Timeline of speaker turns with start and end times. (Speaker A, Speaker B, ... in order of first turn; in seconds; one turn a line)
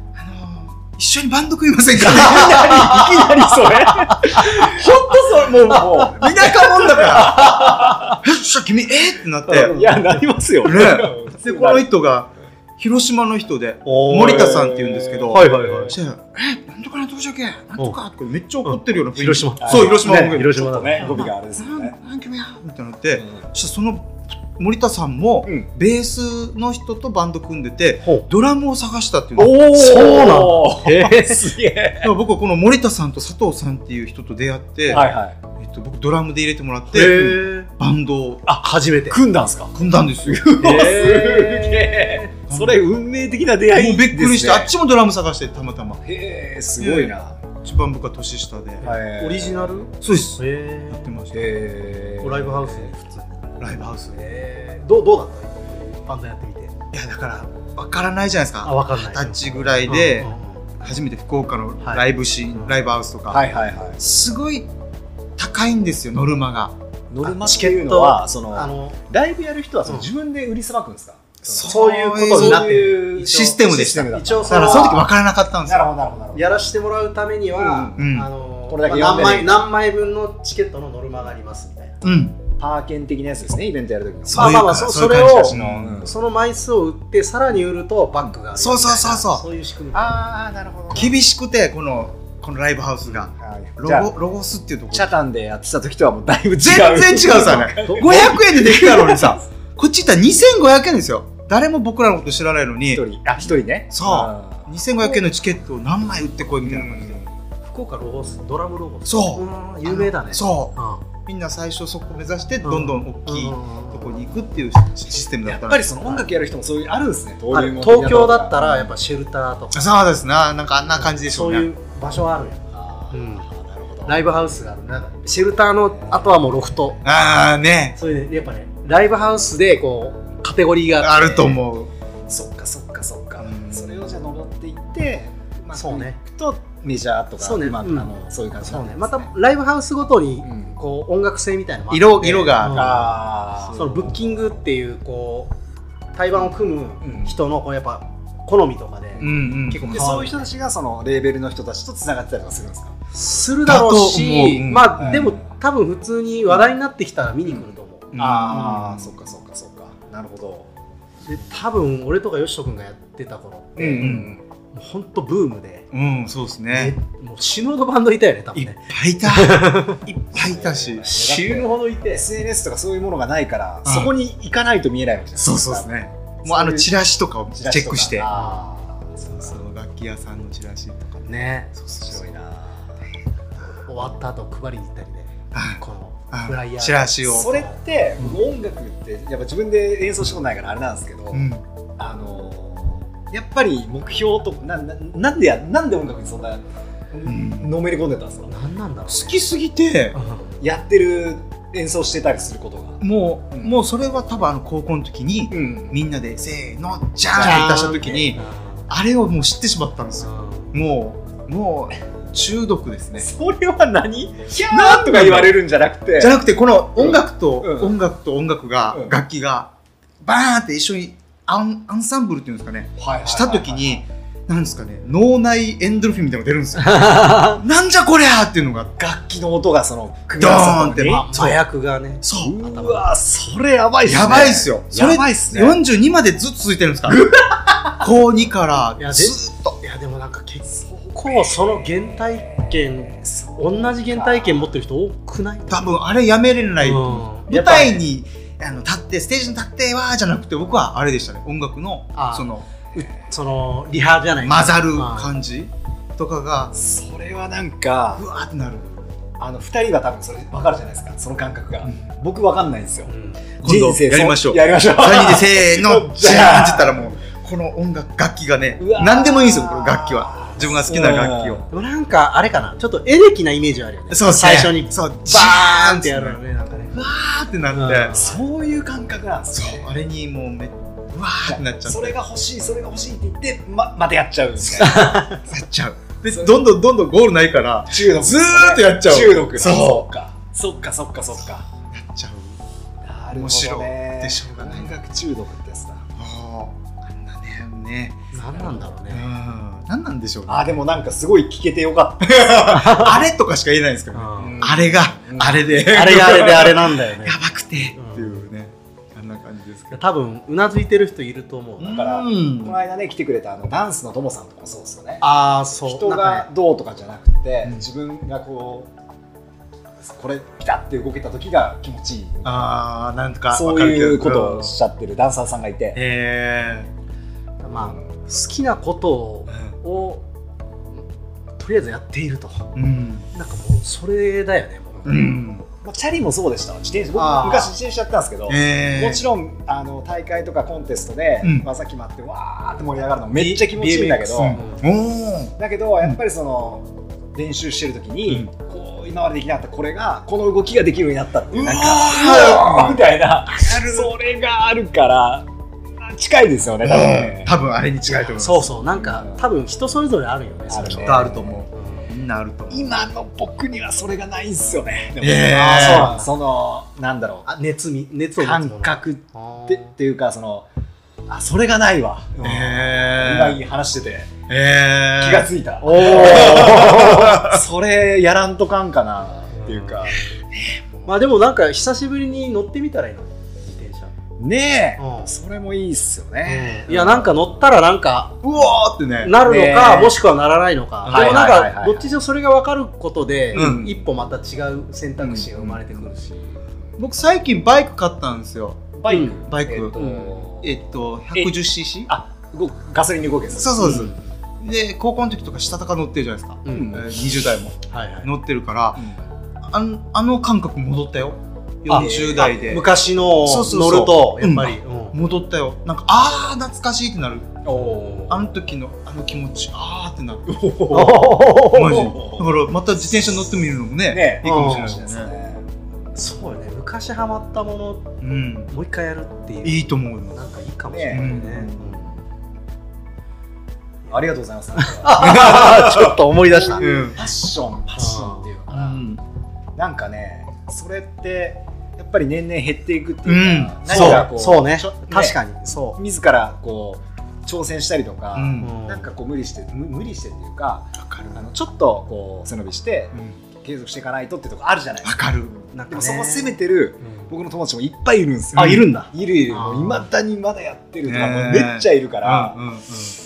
Speaker A: 0.1-3.7
Speaker B: 2.0-8.2
Speaker C: 4.0-4.8
Speaker A: 4.2-7.6
Speaker C: 7.3-8.2
Speaker A: 8.2-9.9
Speaker B: 9.5-11.9
Speaker C: 9.5-9.8
Speaker A: 10.6-29.6
Speaker C: 13.8-14.7
Speaker B: 14.1-16.0
Speaker C: 15.3-16.0
Speaker C: 18.6-21.3
Speaker B: 19.6-22.0
Speaker B: 23.2-23.4
Speaker C: 29.4-31.5
Speaker B: 29.4-32.1
Speaker A: 32.0-38.5
Speaker B: 34.9-35.4
Speaker C: 36.9-37.7
Speaker B: 37.0-37.4
Speaker B: 38.5-39.7
Speaker C: 38.6-39.2
Speaker A: 39.7-40.9
Speaker B: 40.3-44.7
Speaker C: 40.6-42.3
Speaker A: 42.5-42.8
Speaker A: 43.7-46.0
Speaker B: 46.0-47.4
Speaker A: 46.8-48.9
Speaker B: 48.8-49.8
Speaker C: 48.8-51.1
Speaker A: 49.9-51.6
Speaker B: 51.3-52.9
Speaker C: 52.2-53.4
Speaker A: 53.6-54.2
Speaker C: 54.1-56.7
Speaker A: 56.9-60.3
Speaker C: 58.6-60.7
Speaker A: 60.8-63.4
Speaker B: 63.3-64.0
Speaker A: 64.0-64.7
Speaker A: 65.4-66.8
Speaker B: 67.1-75.1
Speaker C: 67.2-69.0
Speaker A: 71.5-75.9
Speaker C: 71.6-73.5
Speaker C: 74.1-75.0
Speaker B: 75.7-76.5
Speaker C: 76.3-82.0
Speaker B: 77.5-78.0
Speaker A: 78.0-78.3
Speaker B: 78.7-79.7
Speaker A: 82.0-82.4
Speaker B: 82.6-86.1
Speaker A: 84.3-86.1
Speaker C: 84.3-90.2
Speaker A: 88.6-89.4
Speaker B: 89.9-91.2
Speaker A: 90.9-95.1
Speaker B: 93.1-94.1
Speaker B: 94.9-99.4
Speaker A: 96.6-103.0
Speaker C: 97.8-98.4
Speaker B: 102.9-104.8
Speaker A: 103.9-107.2
Speaker B: 106.6-107.3
Speaker C: 107.6-111.0
Speaker A: 109.1-110.7
Speaker A: 111.2-116.0
Speaker C: 112.6-114.2
Speaker B: 115.5-118.9
Speaker C: 117.5-120.0
Speaker A: 119.7-121.7
Speaker C: 121.0-123.5
Speaker B: 122.7-124.3
Speaker C: 124.1-127.0
Speaker B: 125.9-126.3
Speaker A: 127.0-128.0
Speaker C: 128.0-131.6
Speaker A: 131.0-131.9
Speaker B: 132.3-139.3
Speaker A: 133.4-134.0
Speaker C: 135.8-136.2
Speaker C: 137.4-138.1
Speaker C: 138.6-143.1
Speaker B: 140.4-140.8
Speaker A: 141.9-143.2
Speaker B: 142.2-144.3
Speaker C: 143.7-145.6
Speaker C: 146.2-150.5
Speaker B: 147.0-147.4
Speaker A: 149.2-150.1
Speaker B: 149.2-153.0
Speaker C: 153.1-158.1
Speaker A: 153.7-155.2
Speaker B: 154.7-155.5
Speaker A: 158.1-159.2
Speaker B: 158.2-160.7
Speaker C: 161.3-164.2
Speaker B: 163.8-164.4
Speaker A: 164.0-164.3
Speaker C: 164.7-165.9
Speaker A: 165.9-166.9
Speaker C: 166.7-170.0
Speaker A: 168.6-171.1
Speaker B: 170.3-176.9
Speaker C: 171.1-172.2
Speaker A: 173.8-174.1
Speaker A: 175.4-178.3
Speaker B: 177.5-179.6
Speaker C: 178.3-178.7
Speaker A: 179.3-182.2
Speaker C: 181.3-181.7
Speaker B: 181.9-182.9
Speaker C: 183.7-187.7
Speaker A: 185.5-185.8
Speaker A: 186.3-187.7
Speaker B: 187.3-191.5
Speaker A: 191.3-191.6
Speaker B: 192.0-198.5
Speaker A: 197.3-197.7
Speaker C: 198.5-199.4
Speaker A: 199.1-200.2
Speaker C: 200.1-200.5
Speaker B: 200.6-203.0
Speaker A: 203.0-213.3
Speaker B: 205.5-206.0
Speaker B: 207.3-208.3
Speaker C: 207.4-208.8
Speaker C: 210.2-210.7
Speaker B: 213.2-216.4
Speaker A: 214.6-215.6
Speaker A: 216.2-219.7
Speaker B: 217.0-218.0
Speaker B: 218.9-219.2
Speaker A: 220.2-228.9
Speaker B: 223.0-224.0
Speaker C: 226.8-227.6
Speaker B: 229.0-231.3
Speaker A: 230.4-231.6
Speaker C: 231.0-233.1
Speaker A: 232.2-232.6
Speaker B: 232.4-235.8
Speaker A: 234.1-237.3
Speaker B: 237.1-238.0
Speaker A: 238.0-239.8
Speaker C: 239.0-245.9
Speaker B: 240.7-244.8
Speaker A: 245.7-252.7
Speaker C: 246.8-248.0
Speaker C: 252.2-255.3
Speaker A: 254.4-256.7
Speaker B: 256.7-258.2
Speaker A: 258.2-259.0
Speaker B: 259.4-263.1
Speaker C: 263.1-263.4
Speaker B: 263.6-267.1
Speaker A: 263.6-271.6
Speaker B: 268.8-271.7
Speaker C: 271.7-277.0
Speaker A: 274.1-276.4
Speaker A: 276.9-278.3
Speaker C: 277.7-278.4
Speaker B: 278.1-279.9
Speaker A: 279.5-282.2
Speaker B: 281.5-285.2
Speaker A: 284.6-290.1
Speaker C: 284.8-285.4
Speaker B: 286.3-286.6
Speaker B: 287.9-291.6
Speaker A: 291.8-292.6
Speaker B: 293.0-296.1
Speaker A: 293.3-294.9
Speaker A: 296.2-298.2
Speaker C: 298.3-299.3
Speaker A: 299.1-300.7
Speaker B: 300.5-302.8
Speaker A: 302.2-310.0
Speaker C: 302.6-303.2
Speaker C: 304.1-304.6
Speaker B: 304.4-305.7
Speaker C: 305.7-308.4
Speaker C: 309.9-312.1
Speaker A: 311.8-312.8
Speaker B: 311.9-315.2
Speaker C: 315.2-316.5
Speaker B: 315.9-318.9
Speaker B: 320.0-322.7
Speaker A: 322.4-324.7
Speaker B: 323.5-326.0
Speaker A: 325.9-326.9
Speaker C: 327.6-330.2
Speaker C: 331.6-332.7
Speaker A: 332.8-333.3
Speaker C: 333.3-335.4
Speaker A: 335.1-335.7
Speaker B: 335.8-344.6
Speaker C: 337.1-337.7
Speaker A: 338.5-339.2
Speaker C: 343.4-344.8
Speaker A: 344.4-345.5
Speaker B: 345.6-357.7
Speaker A: 351.5-354.1
Speaker A: 356.8-358.8
Speaker C: 358.4-362.1
Speaker B: 358.9-359.4
Speaker B: 360.7-361.6
Speaker A: 360.9-362.9
Speaker B: 362.7-367.5
Speaker A: 365.2-366.2
Speaker C: 365.5-366.3
Speaker C: 367.5-369.9
Speaker B: 368.4-370.7
Speaker B: 371.3-374.3
Speaker A: 372.4-373.6
Speaker A: 374.5-377.6
Speaker B: 375.2-380.2
Speaker C: 375.8-377.4
Speaker C: 379.5-380.2
Speaker C: 381.1-384.1
Speaker B: 384.4-387.6
Speaker C: 385.0-385.3
Speaker C: 386.4-388.4
Speaker A: 388.4-389.3
Speaker C: 389.2-396.5
Speaker B: 389.4-390.2
Speaker A: 391.1-391.6
Speaker B: 391.1-392.1
Speaker A: 393.5-393.9
Speaker B: 393.5-394.0
Speaker B: 395.2-395.8
Speaker A: 397.0-402.1
Speaker B: 399.0-400.8
Speaker C: 399.1-399.4
Speaker C: 400.0-400.4
Speaker B: 402.1-404.1
Speaker A: 403.5-409.0
Speaker C: 403.8-404.2
Speaker C: 406.7-407.0
Speaker B: 406.7-407.2
Speaker C: 407.9-408.3
Speaker B: 409.0-409.3
Speaker A: 409.7-417.6
Speaker C: 411.9-415.2
Speaker B: 411.9-412.8
Speaker B: 417.7-418.3
Speaker C: 417.7-418.4
Speaker A: 418.3-425.3
Speaker C: 420.9-422.1
Speaker B: 421.7-423.5
Speaker B: 424.1-425.7
Speaker C: 424.4-424.9
Speaker C: 426.1-428.1
Speaker A: 428.2-428.7
Speaker C: 428.7-432.1
Speaker A: 429.6-430.4
Speaker B: 430.9-432.2
Speaker A: 431.1-431.7
Speaker B: 434.1-439.0
Speaker C: 434.8-436.9
Speaker A: 435.2-436.1
Speaker A: 436.8-437.2
Speaker C: 437.9-438.4
Speaker A: 438.7-439.2
Speaker B: 439.8-445.4
Speaker A: 443.2-444.3
Speaker C: 443.9-446.0
Speaker B: 446.0-462.6
Speaker A: 448.4-448.7
Speaker C: 448.6-449.1
Speaker A: 451.0-451.5
Speaker A: 455.0-455.5
Speaker C: 455.7-457.3
Speaker A: 458.5-458.9
Speaker C: 458.5-460.1
Speaker A: 461.1-463.2